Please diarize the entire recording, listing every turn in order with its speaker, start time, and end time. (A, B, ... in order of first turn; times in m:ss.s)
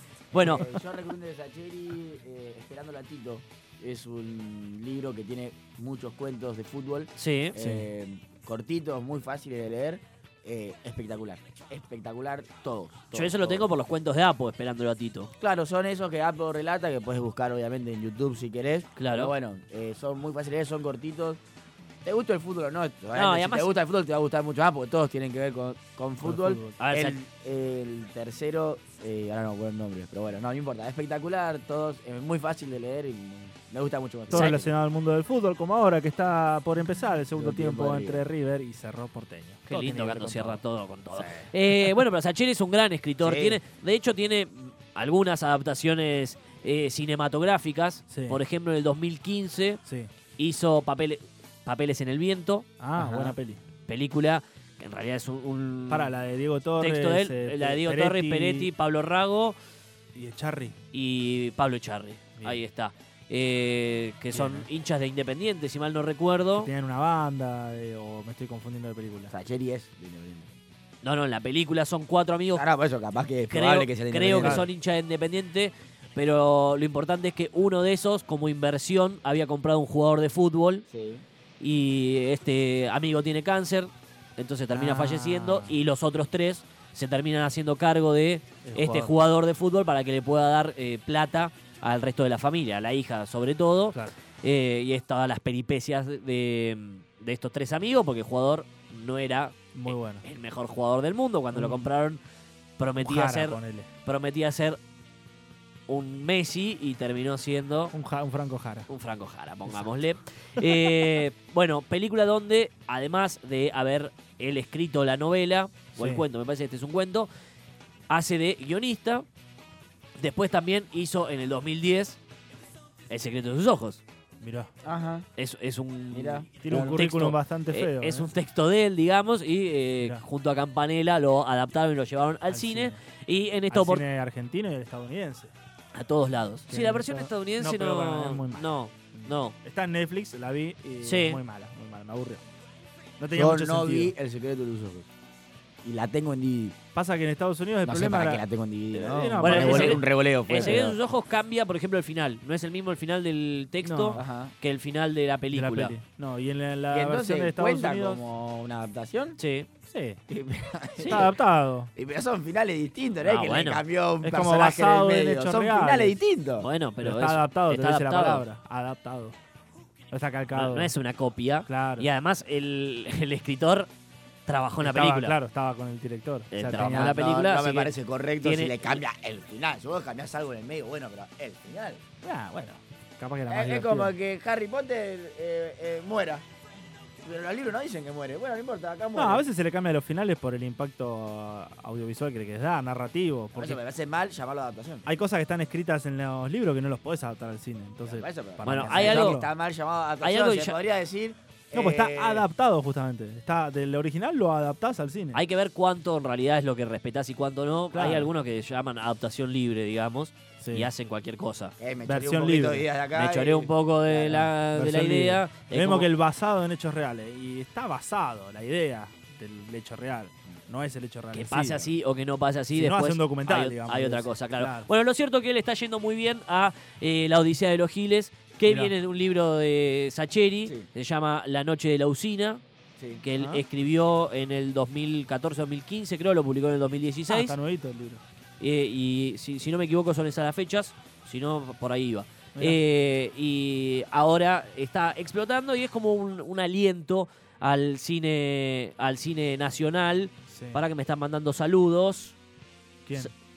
0:00.3-0:00.6 A
0:00.4-0:13.6 B
0:07.2-0:07.6 A
0:07.6-0:07.9 C
0:13.1-0:15.3 A
0:15.4-0:21.4 B
0:19.0-0:19.3 A
0:22.0-0:34.7 B
0:23.1-0:23.7 A
0:26.2-0:26.8 C
0:26.8-0:27.2 A
0:34.3-0:40.6 C
0:34.3-0:34.6 A
0:37.4-0:38.2 B
0:39.7-0:49.8 A
0:41.1-0:41.5 B
0:43.2-0:43.6 B
0:48.1-0:48.4 C
0:50.4-0:52.7 A
0:52.8-0:53.6 C
0:53.0-0:53.3 B
0:53.9-0:56.1 A
0:55.9-0:58.7 C
0:56.8-0:59.6 A
1:00.2-1:00.8 C
1:00.9-1:06.7 A
1:04.3-1:04.7 C
1:06.6-1:09.3 C
1:09.3-1:10.5 B
1:11.0-1:12.6 A
1:12.6-1:14.7 B
1:13.5-1:20.8 A
1:14.4-1:14.7 C
1:20.9-1:21.2 B
1:21.6-1:42.2 A
1:24.7-1:25.7 C
1:28.6-1:29.1 C
1:39.7-1:40.2 C
1:41.5-1:41.9 C
1:42.8-1:44.8 A
1:43.0-1:43.9 C
1:45.9-1:47.9 A
1:47.9-1:48.9 C
1:48.9-1:57.3 A
1:50.6-1:51.2 C
1:56.0-1:56.2 C
1:58.1-1:59.2 A
2:00.2-2:02.2 A
2:03.1-2:04.0 A
2:04.4-2:04.7 C
2:04.8-2:05.3 B
2:05.4-2:14.0 A
2:06.1-2:06.5 B
2:06.6-2:08.3 C
2:12.5-2:13.0 C
2:13.7-2:15.5 C
2:16.0-2:19.6 A
2:16.7-2:22.4 C
2:21.0-2:21.4 A
2:23.2-2:24.1 C
2:23.3-2:25.1 B
2:25.8-2:26.8 B
2:27.0-2:30.9 C
2:27.8-2:31.0 B
2:29.4-2:35.9 A
2:33.8-2:34.2 C
2:34.2-2:34.5 B
2:35.5-2:38.2 C
2:36.9-2:39.4 B
2:39.4-2:39.7 A
2:39.9-2:40.2 C
2:40.3-2:41.4 B
2:41.0-2:41.3 A
2:41.0-2:41.9 C
2:42.0-2:46.7 B
2:43.2-2:43.8 A
2:44.2-2:46.2 C
2:46.6-2:48.4 A
2:47.0-2:49.4 C
2:50.1-2:50.9 C
2:50.6-2:53.9 A
2:51.7-2:52.1 C
2:54.5-2:55.4 A
2:54.8-2:57.2 C
2:56.5-2:58.9 A
2:56.8-3:02.0 B
3:02.2-3:04.1 C
3:03.5-3:06.4 B
3:07.2-3:09.4 B
3:09.2-3:13.8 C
3:13.6-3:15.1 B
3:15.1-3:19.5 C
3:18.0-3:22.5 B
3:18.6-3:19.4 A
3:20.2-3:20.8 A
3:21.7-3:25.4 C
3:25.3-3:31.8 A
3:27.9-3:28.3 C
3:30.6-3:30.9 C
3:31.8-3:34.3 B
3:32.1-3:32.8 C
3:33.2-3:36.1 A
3:34.3-3:41.9 C
3:41.3-3:52.6 A
3:42.7-3:44.9 C
3:48.7-3:48.9 C
3:53.0-3:53.2 B
3:53.2-3:57.6 A
3:53.4-3:53.6 C
3:57.3-3:58.2 C
3:58.6-4:12.4 A
4:10.5-4:10.8 C